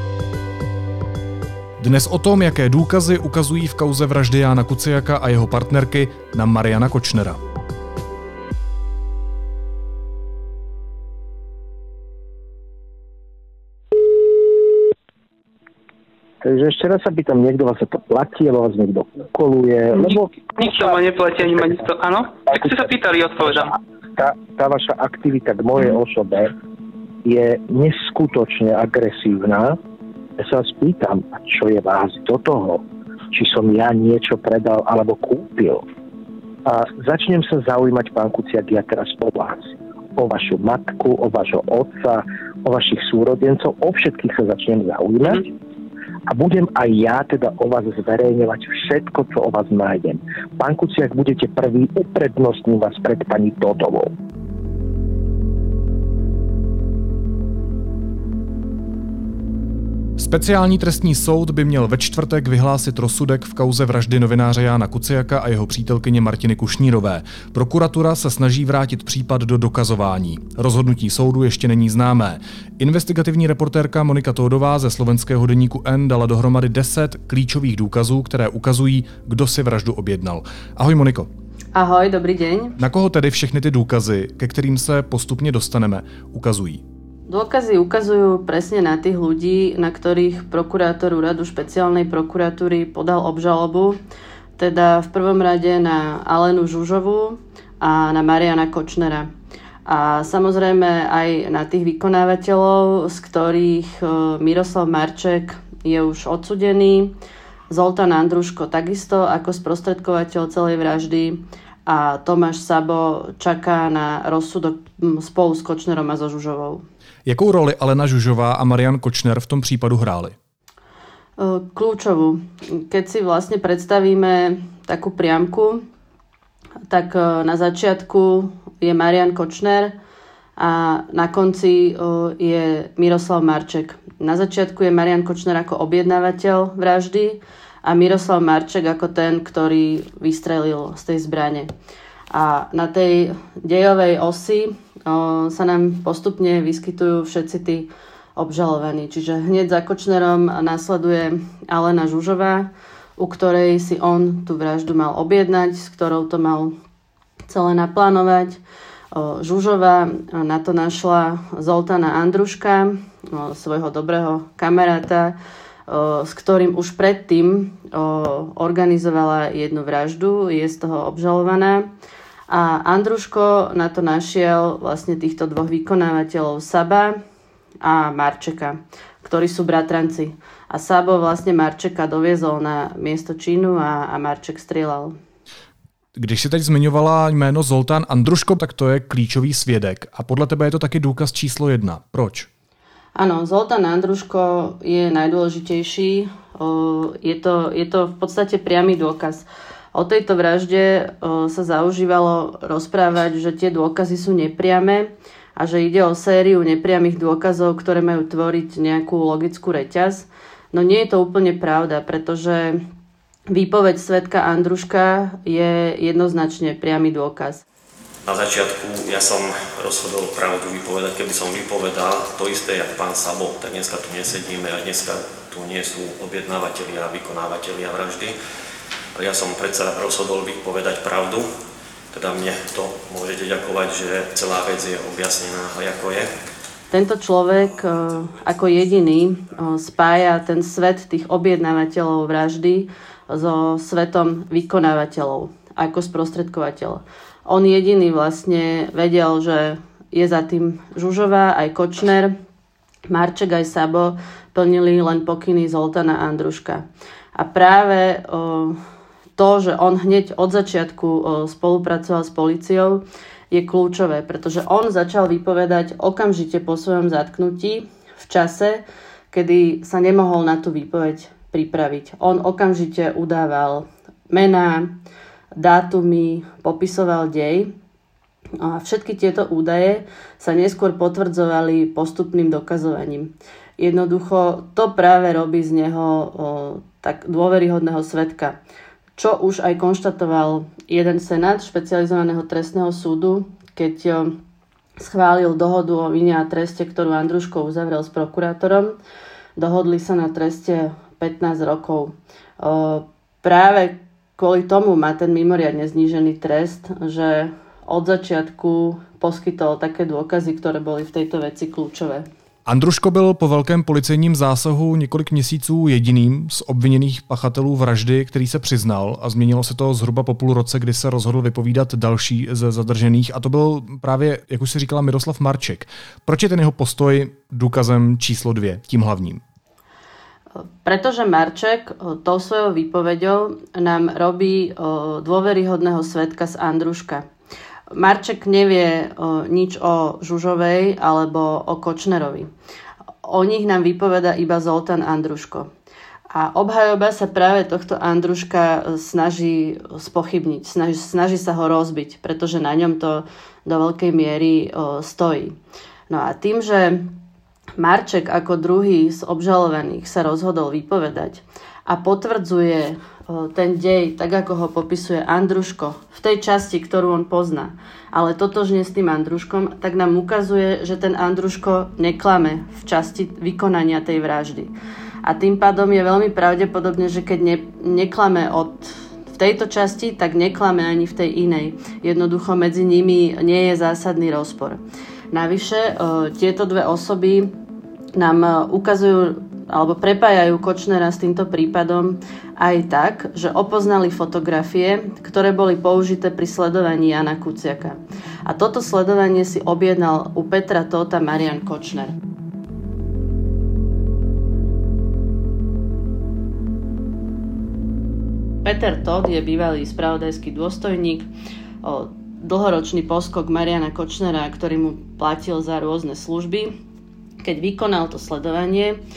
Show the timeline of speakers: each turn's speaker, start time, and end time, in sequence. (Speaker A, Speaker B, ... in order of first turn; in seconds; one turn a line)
Speaker A: 1.8-7.4
Speaker B: 16.4-20.3
Speaker C: 20.0-23.8
Speaker B: 23.7-26.5
Speaker B: 27.2-29.8
Speaker B: 30.4-35.8
Speaker B: 36.6-45.5
Speaker B: 46.3-54.1
Speaker A: 60.2-81.3
Speaker D: 81.7-82.8
Speaker A: 82.8-86.8
Speaker D: 87.3-94.0
Speaker D: 94.6-99.3
Speaker D: 99.8-107.1
Speaker D: 107.7-116.8
Speaker A: 117.2-120.3
Speaker D: 121.4-125.8
Speaker D: 126.9-129.9
Speaker D: 130.6-141.7
Speaker D: 142.3-156.7
Speaker D: 157.5-158.6
Speaker D: 159.1-165.3
Speaker D: 165.9-171.9
Speaker D: 172.5-177.2
Speaker D: 177.8-185.2
Speaker A: 186.2-192.5
Speaker D: 193.2-212.8
Speaker D: 213.5-217.6
Speaker E: 218.2-228.3
Speaker E: 229.1-231.4
Speaker E: 232.1-236.3
Speaker D: 236.9-252.3
Speaker D: 253.1-256.8
Speaker D: 257.3-258.8
Speaker D: 259.4-274.9
Speaker D: 275.5-277.7
Speaker D: 278.6-288.6
Speaker D: 289.2-294.4
Speaker D: 295.0-299.0
Speaker D: 299.6-312.2
Speaker A: 312.6-329.4
Speaker D: 330.6-337.2
Speaker D: 337.9-342.5
Speaker D: 343.2-345.7
Speaker D: 346.3-355.6
Speaker D: 356.1-357.1
Speaker D: 357.8-374.7
Speaker D: 375.2-384.8
Speaker D: 385.3-387.5
Speaker D: 388.1-402.1
Speaker D: 408.6-411.3
Speaker D: 411.8-416.7
Speaker D: 417.4-419.0